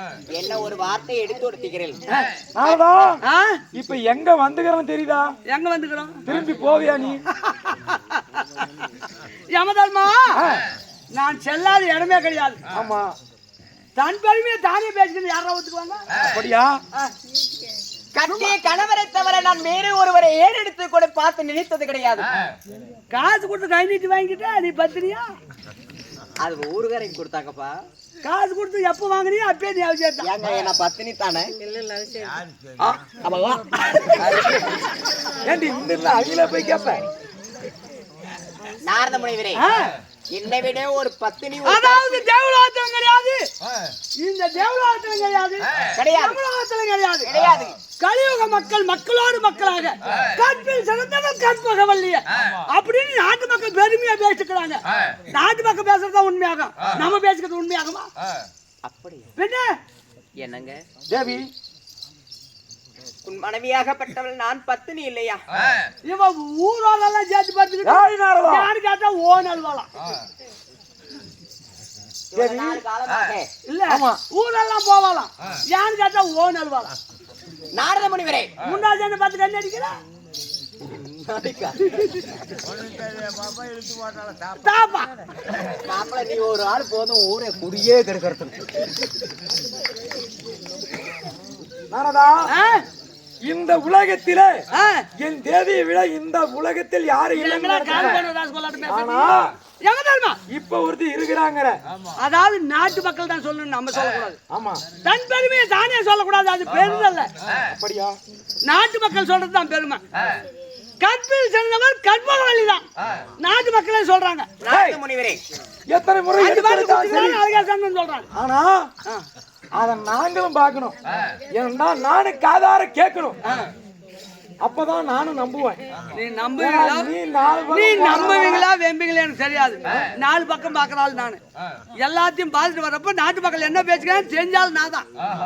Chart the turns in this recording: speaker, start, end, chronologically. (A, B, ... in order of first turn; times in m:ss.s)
0:00.3-0:02.0 A
0:02.5-0:03.2 B
0:03.2-0:03.6 C
0:03.7-0:05.3 B
0:05.5-0:06.2 C
0:06.2-0:07.2 B
0:07.5-0:08.2 C
0:09.5-0:10.4 C
0:10.3-0:10.6 B
0:11.1-0:12.6 C
0:12.7-0:13.1 B
0:14.0-0:16.1 C
0:16.2-0:16.8 B
0:18.1-0:22.3 A
0:23.1-0:25.2 C
0:26.4-0:27.8 A
0:28.2-0:30.3 C
0:30.2-0:31.5 A
0:33.2-0:34.6 A
0:35.4-0:37.0 B
0:38.8-0:39.6 A
0:39.6-0:39.9 C
0:40.3-0:42.2 A
0:41.6-0:43.5 C
0:44.2-0:47.3 C
0:46.0-0:46.4 A
0:47.2-0:47.7 A
0:48.0-0:58.1 C
0:58.8-0:59.3 A
0:59.4-0:59.7 C
1:00.4-1:00.8 A
1:01.1-1:01.5 B
1:03.2-1:05.4 A
1:06.0-1:09.9 C
1:07.8-1:08.7 B
1:12.3-1:13.5 A
1:12.4-1:12.8 B
1:13.7-1:16.9 C
1:13.9-1:14.2 B
1:17.7-1:18.5 A
1:18.6-1:19.9 C
1:20.8-1:22.3 A
1:24.6-1:25.1 C
1:25.8-1:28.7 A
1:31.9-1:32.5 B
1:32.5-1:32.8 C
1:33.4-1:34.6 B
1:34.7-1:35.0 C
1:35.2-1:38.2 B
1:37.3-1:40.4 C
1:38.9-1:39.5 B
1:40.5-1:41.8 B
1:42.2-1:44.4 C
1:44.5-1:44.8 B
1:45.0-1:47.3 C
1:47.6-1:48.2 B
1:48.6-1:50.0 C
1:51.0-1:52.8 C
1:53.4-1:54.5 C
1:54.6-1:55.4 A
1:54.7-1:55.0 B
1:55.9-1:57.4 B
1:56.4-1:58.3 C
1:58.3-1:58.9 B
1:59.8-2:01.0 B
2:01.5-2:03.4 B
2:03.4-2:03.7 C
2:04.6-2:05.8 B
2:06.1-2:07.1 C
2:06.6-2:08.7 B
2:07.7-2:11.4 C
2:12.0-2:15.0 C